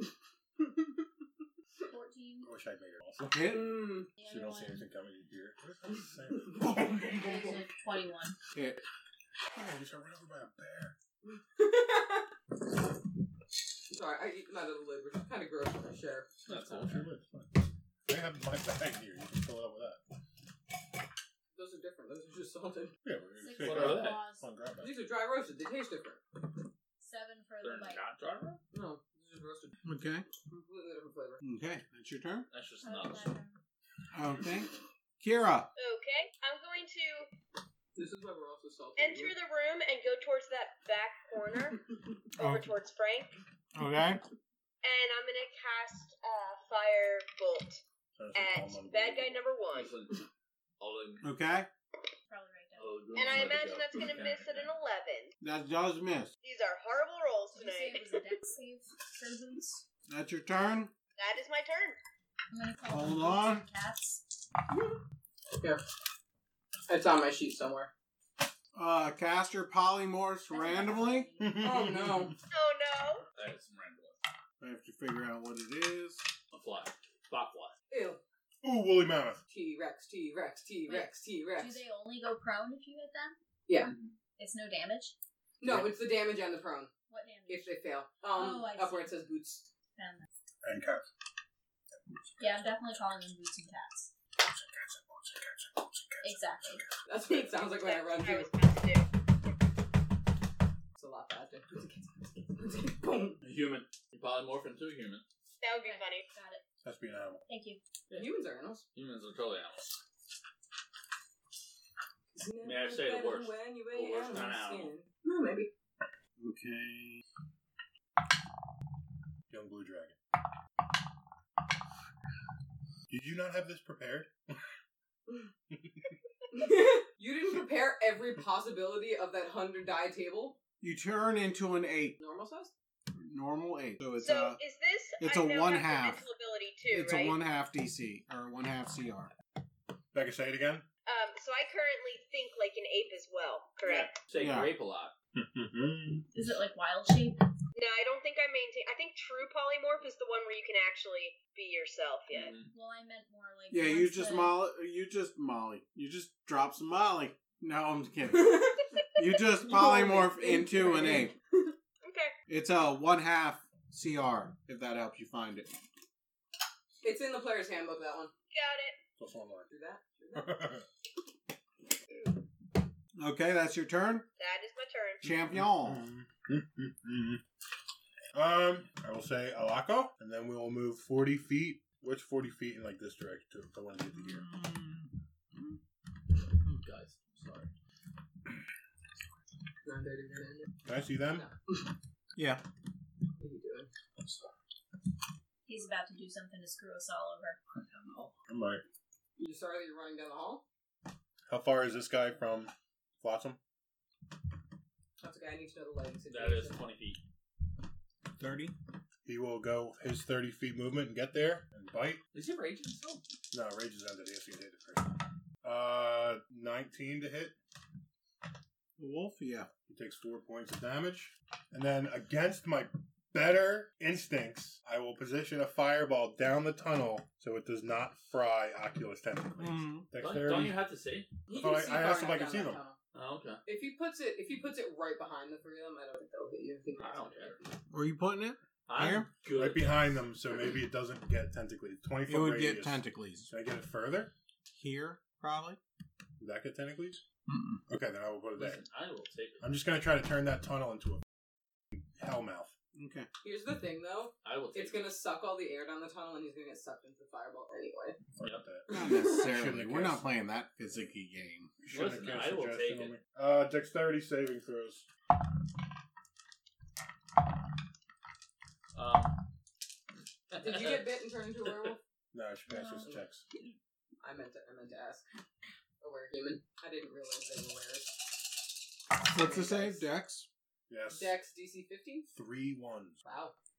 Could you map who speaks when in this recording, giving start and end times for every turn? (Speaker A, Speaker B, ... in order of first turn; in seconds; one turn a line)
Speaker A: 1.9-2.5
Speaker B: 2.4-3.5
Speaker C: 3.2-3.8
Speaker D: 3.5-4.1
Speaker A: 4.2-4.8
Speaker B: 4.2-7.2
Speaker D: 6.5-7.5
Speaker A: 7.0-8.4
Speaker C: 8.5-8.8
Speaker B: 9.5-10.9
Speaker D: 11.3-12.3
Speaker D: 13.9-16.5
Speaker E: 16.5-17.1
Speaker B: 16.5-20.0
Speaker D: 21.5-22.9
Speaker B: 23.0-24.9
Speaker A: 23.4-24.5
Speaker E: 23.6-24.2
Speaker D: 24.8-26.2
Speaker A: 27.0-28.0
Speaker E: 27.6-28.6
Speaker D: 28.7-29.8
Speaker C: 29.8-30.2
Speaker D: 30.5-31.4
Speaker C: 31.4-32.5
Speaker E: 32.5-33.3
Speaker A: 32.8-33.6
Speaker C: 34.1-35.7
Speaker F: 35.8-37.3
Speaker D: 38.0-39.4
Speaker F: 39.0-41.8
Speaker F: 42.3-43.3
Speaker C: 42.4-42.7
Speaker C: 43.7-44.2
Speaker F: 44.8-47.8
Speaker B: 48.1-49.5
Speaker F: 48.3-49.9
Speaker E: 49.7-50.2
Speaker E: 50.8-51.3
Speaker C: 51.2-51.7
Speaker A: 52.3-53.3
Speaker E: 52.8-54.7
Speaker F: 53.1-55.3
Speaker C: 55.4-56.3
Speaker F: 56.4-58.2
Speaker A: 57.5-59.8
Speaker C: 60.1-60.9
Speaker F: 61.1-62.0
Speaker A: 62.5-64.2
Speaker C: 62.9-63.6
Speaker D: 64.7-65.0
Speaker D: 66.9-67.9
Speaker C: 68.7-71.3
Speaker A: 70.5-71.7
Speaker B: 71.4-72.4
Speaker D: 71.6-72.3
Speaker F: 72.5-73.2
Speaker E: 73.3-74.2
Speaker C: 74.6-76.2
Speaker E: 76.5-77.7
Speaker D: 77.9-78.2
Speaker B: 78.6-79.4
Speaker D: 79.5-81.8
Speaker A: 80.9-83.4
Speaker D: 83.7-83.9
Speaker E: 83.8-84.1
Speaker A: 84.4-85.1
Speaker D: 85.6-86.9
Speaker B: 85.6-85.9
Speaker A: 87.1-87.7
Speaker D: 87.5-89.7
Speaker A: 88.3-89.2
Speaker A: 90.0-90.3
Speaker B: 90.6-91.0
Speaker B: 92.1-92.7
Speaker A: 92.4-94.1
Speaker B: 94.4-96.8
Speaker A: 96.2-96.9
Speaker D: 97.0-98.5
Speaker F: 97.4-99.1
Speaker D: 100.9-103.4
Speaker E: 103.4-105.2
Speaker F: 105.6-106.3
Speaker A: 105.7-106.6
Speaker B: 106.8-107.4
Speaker A: 107.5-107.8
Speaker D: 108.1-108.8
Speaker E: 108.9-110.0
Speaker D: 112.3-115.7
Speaker E: 112.6-114.9
Speaker C: 116.4-117.2
Speaker B: 119.5-120.2
Speaker B: 123.1-124.6
Speaker B: 125.7-126.1
Speaker D: 126.5-130.6
Speaker C: 130.8-132.2
Speaker D: 132.2-132.7
Speaker C: 133.1-134.6
Speaker F: 134.2-137.4
Speaker C: 135.2-136.2
Speaker C: 136.9-139.3
Speaker B: 140.1-140.9
Speaker F: 141.1-144.2
Speaker E: 143.8-145.1
Speaker C: 144.3-144.7
Speaker B: 145.3-146.3
Speaker A: 146.3-147.4
Speaker F: 147.7-152.6
Speaker E: 152.3-152.7
Speaker A: 152.7-154.6
Speaker C: 153.7-161.3
Speaker D: 158.3-161.7
Speaker F: 162.0-162.3
Speaker C: 162.5-165.7
Speaker D: 167.0-168.3
Speaker F: 168.5-169.0
Speaker B: 169.2-169.7
Speaker D: 169.7-170.6
Speaker B: 170.3-170.9
Speaker C: 173.2-174.3
Speaker F: 174.4-175.2
Speaker C: 175.2-176.1
Speaker B: 175.4-177.4
Speaker B: 178.3-184.4
Speaker C: 184.1-185.8
Speaker E: 186.6-187.7
Speaker D: 189.8-190.8
Speaker B: 190.8-191.5
Speaker D: 191.3-191.7
Speaker C: 192.3-192.6
Speaker D: 193.4-193.9
Speaker A: 195.7-197.6
Speaker E: 197.7-198.3
Speaker B: 198.5-198.8
Speaker D: 199.4-200.6
Speaker B: 201.5-203.6
Speaker D: 205.2-206.8
Speaker E: 206.3-207.2
Speaker C: 208.4-208.7
Speaker B: 209.2-212.2
Speaker E: 212.3-213.2
Speaker B: 213.5-217.5
Speaker C: 219.0-219.7
Speaker B: 219.9-230.8
Speaker C: 229.6-230.1
Speaker E: 230.2-231.3
Speaker D: 231.5-233.0
Speaker B: 231.5-232.8
Speaker E: 233.1-233.6
Speaker D: 233.6-237.7
Speaker E: 237.0-237.6
Speaker C: 237.9-239.3
Speaker E: 238.9-240.1
Speaker B: 239.5-244.3
Speaker C: 242.3-243.5
Speaker C: 244.7-245.8
Speaker B: 246.4-247.2
Speaker C: 247.5-247.8
Speaker B: 247.9-248.8
Speaker E: 248.6-249.7
Speaker B: 249.6-251.2
Speaker B: 252.2-252.7
Speaker C: 252.9-253.3
Speaker D: 253.4-258.2
Speaker E: 254.4-255.1
Speaker B: 258.4-260.2
Speaker E: 258.4-258.6
Speaker D: 258.9-259.5
Speaker C: 258.9-261.7
Speaker B: 261.8-265.1
Speaker E: 261.9-263.2
Speaker E: 268.9-269.4
Speaker E: 270.5-271.1
Speaker D: 270.6-272.0
Speaker B: 272.3-273.4
Speaker A: 272.7-273.1
Speaker D: 274.2-275.2
Speaker D: 276.0-278.4
Speaker D: 279.2-280.1
Speaker C: 279.3-280.5
Speaker B: 280.9-281.4
Speaker D: 281.1-282.3
Speaker B: 282.3-283.2
Speaker D: 283.2-283.5